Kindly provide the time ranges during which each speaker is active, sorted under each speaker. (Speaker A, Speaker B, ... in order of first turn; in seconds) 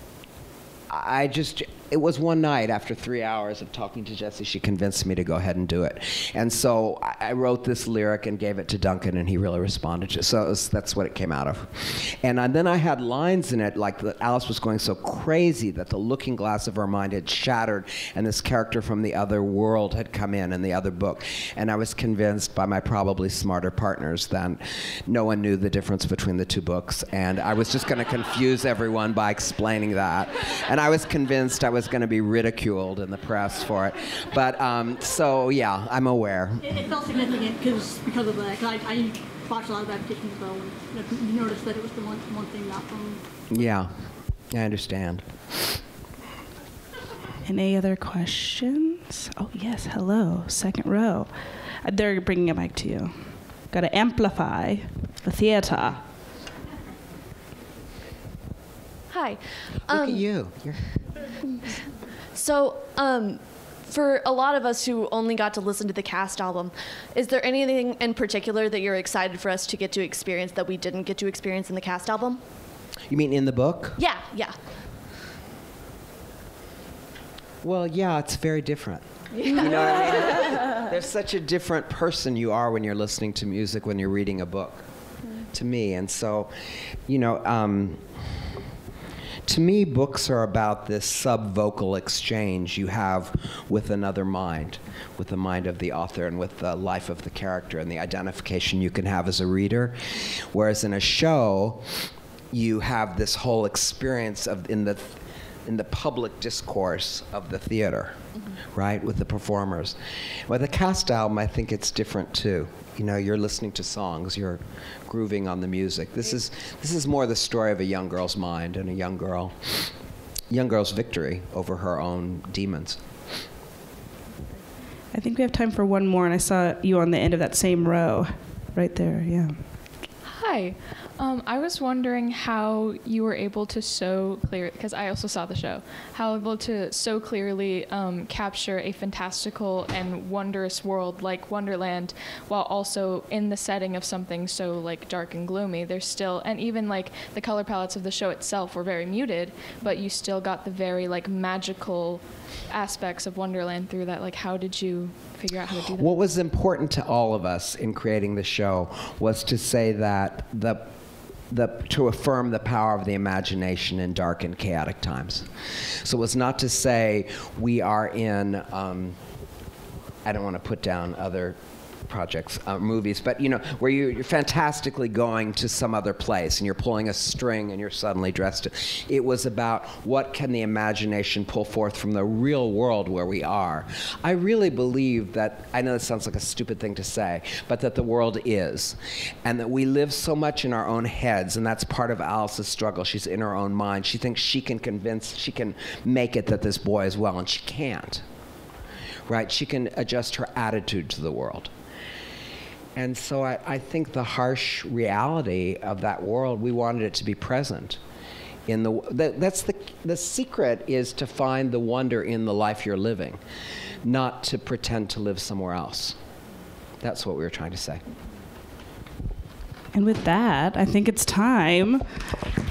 Speaker A: 0.9-36.8, 43.5-44.0, 44.5-45.8, 59.9-60.9, 73.1-74.0, 77.6-84.8, 85.5-86.5, 87.1-88.0, 89.5-101.9, 102.5-119.9, 120.5-123.0, 156.0-160.9, 161.5-169.2, 170.2-198.2, 199.3-201.7, 202.9-208.0, 208.7-213.4, 214.0-216.2, 217.0-218.0
Speaker B: 36.6-43.2
Speaker C: 47.5-51.3, 51.8-53.1, 53.7-56.0, 125.1-129.6, 219.9-222.2
Speaker D: 59.1-60.2, 62.4-72.4, 74.0-74.5
Speaker E: 130.2-156.2